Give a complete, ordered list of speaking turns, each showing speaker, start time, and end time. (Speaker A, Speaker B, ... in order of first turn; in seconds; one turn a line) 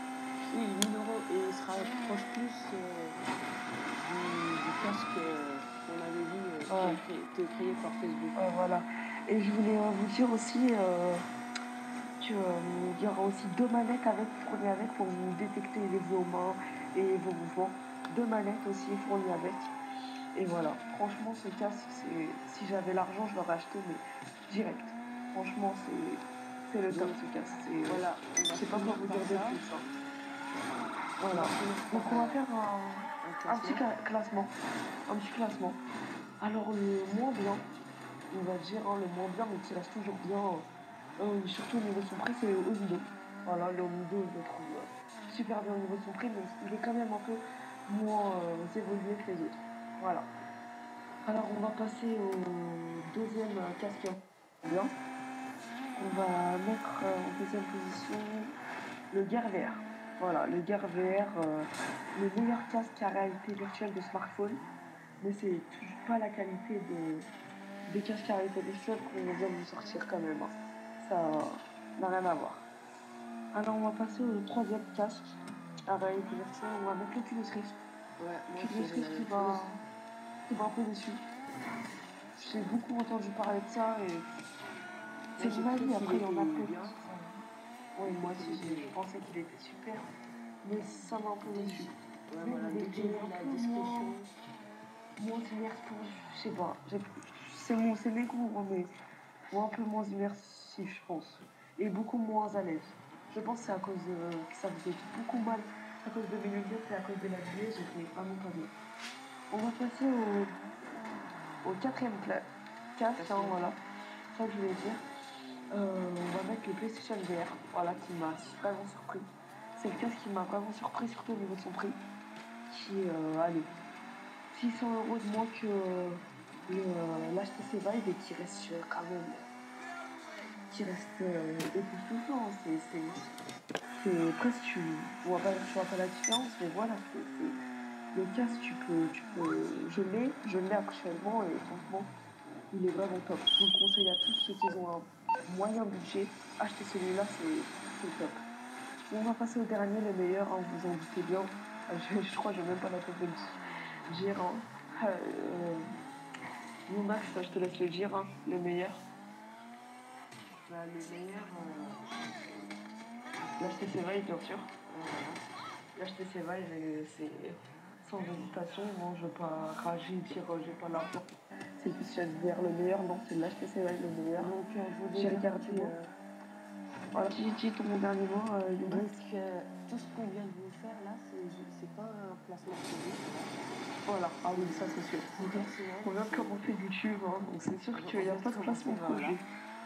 Speaker A: 0.5-3.2
Speaker A: 4.0-8.4
Speaker B: 6.7-7.0
Speaker B: 8.3-11.2
Speaker B: 12.2-19.7
Speaker B: 20.3-29.9
Speaker A: 26.9-27.2
Speaker A: 27.9-29.6
Speaker B: 31.2-34.5
Speaker A: 31.3-32.4
Speaker A: 33.2-33.8
Speaker B: 35.1-35.8
Speaker B: 36.4-37.7
Speaker B: 38.3-50.3
Speaker B: 51.2-54.9
Speaker B: 55.9-58.6
Speaker B: 59.1-64.6
Speaker B: 65.2-67.3
Speaker B: 67.9-72.7
Speaker B: 73.5-75.4
Speaker B: 75.9-77.8
Speaker A: 78.2-79.7
Speaker B: 78.6-79.8
Speaker B: 80.5-81.2
Speaker B: 82.3-84.3
Speaker B: 85.4-87.4
Speaker A: 85.4-87.0
Speaker B: 88.0-90.1
Speaker A: 88.0-89.0
Speaker B: 90.6-94.1
Speaker A: 91.5-94.3
Speaker B: 95.2-98.9
Speaker B: 99.5-108.7
Speaker B: 109.5-110.5
Speaker B: 111.6-113.8
Speaker A: 113.2-113.6
Speaker B: 114.3-115.0
Speaker B: 115.7-122.0
Speaker B: 122.7-123.7
Speaker B: 124.5-129.4
Speaker B: 130.7-133.2
Speaker B: 133.9-137.6
Speaker B: 138.1-142.1
Speaker B: 142.7-148.4
Speaker B: 149.0-155.9
Speaker B: 156.9-159.0
Speaker A: 160.7-162.7
Speaker A: 163.4-163.9
Speaker B: 163.6-164.7
Speaker A: 164.9-165.4
Speaker B: 165.9-171.2
Speaker B: 171.8-174.5
Speaker A: 174.4-176.1
Speaker B: 175.1-175.9
Speaker B: 177.1-179.1
Speaker A: 178.9-183.5
Speaker B: 184.1-189.4
Speaker A: 184.5-186.6
Speaker A: 187.9-189.4